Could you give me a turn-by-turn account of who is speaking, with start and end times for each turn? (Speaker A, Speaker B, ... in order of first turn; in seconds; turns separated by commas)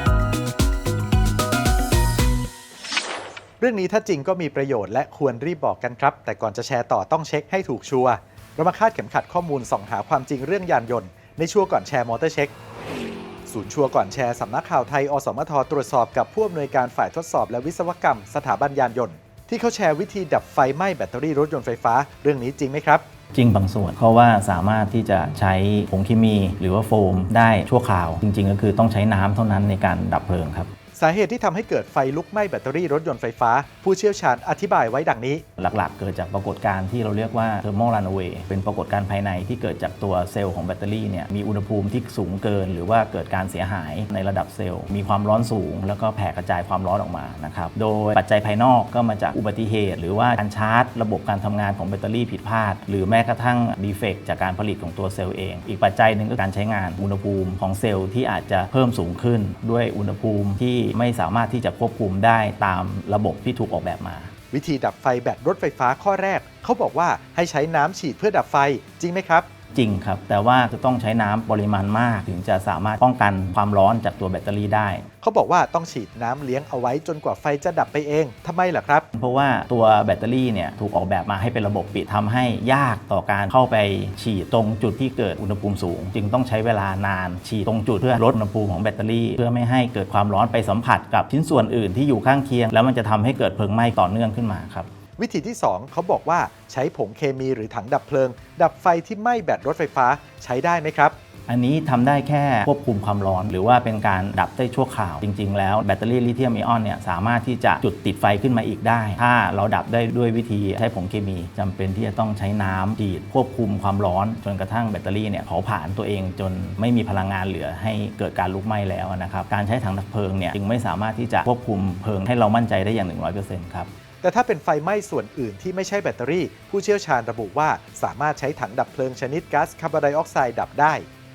Speaker A: 3.6-12.5, Speaker A: 13.5-23.0, Speaker B: 23.3-30.7, Speaker A: 30.9-35.4, Speaker B: 35.6-64.3, Speaker A: 64.5-69.5, Speaker B: 69.7-75.1, Speaker A: 75.2-79.0, Speaker B: 79.1-94.9, Speaker A: 95.2-101.2, Speaker B: 101.5-123.9, Speaker A: 124.2-131.1